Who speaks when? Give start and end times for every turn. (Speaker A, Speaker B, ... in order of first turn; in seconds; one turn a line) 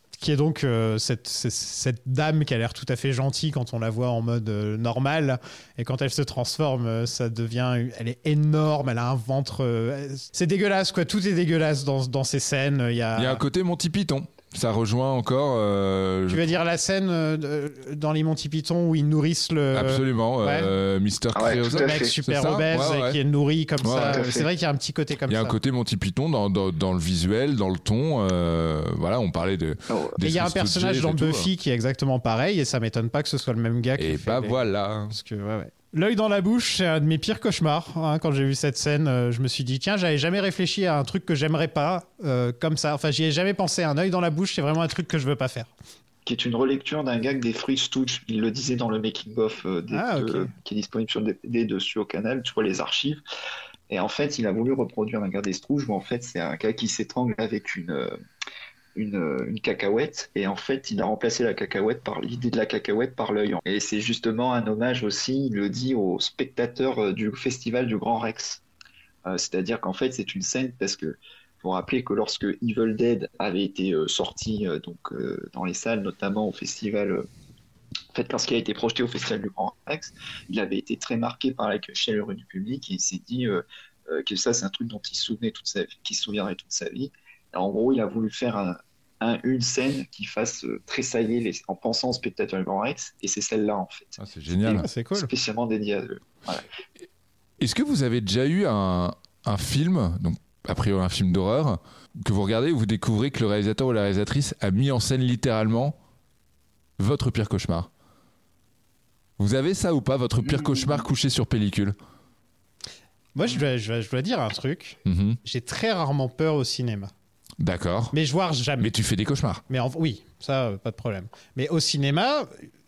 Speaker A: 0.2-13.4
Speaker B: 13.1-16.6
Speaker A: 16.3-20.7
Speaker B: 19.7-23.2
Speaker C: 21.3-22.2
Speaker A: 21.8-25.6
Speaker B: 23.8-24.2
Speaker C: 24.0-24.5
Speaker B: 25.3-31.5
Speaker A: 30.2-34.6
Speaker B: 34.0-35.1
Speaker A: 35.1-45.7
Speaker C: 46.3-53.2
Speaker A: 49.9-50.5
Speaker C: 53.9-58.2
Speaker C: 59.0-68.6
Speaker C: 69.3-77.3
Speaker C: 78.1-96.7
Speaker B: 94.2-94.9
Speaker A: 94.7-95.3
Speaker B: 97.6-106.0
Speaker B: 107.0-107.9
Speaker B: 109.4-112.0
Speaker A: 113.3-117.1
Speaker B: 115.1-115.4
Speaker B: 117.6-118.1
Speaker A: 118.1-118.9
Speaker B: 118.8-119.6
Speaker A: 119.7-122.7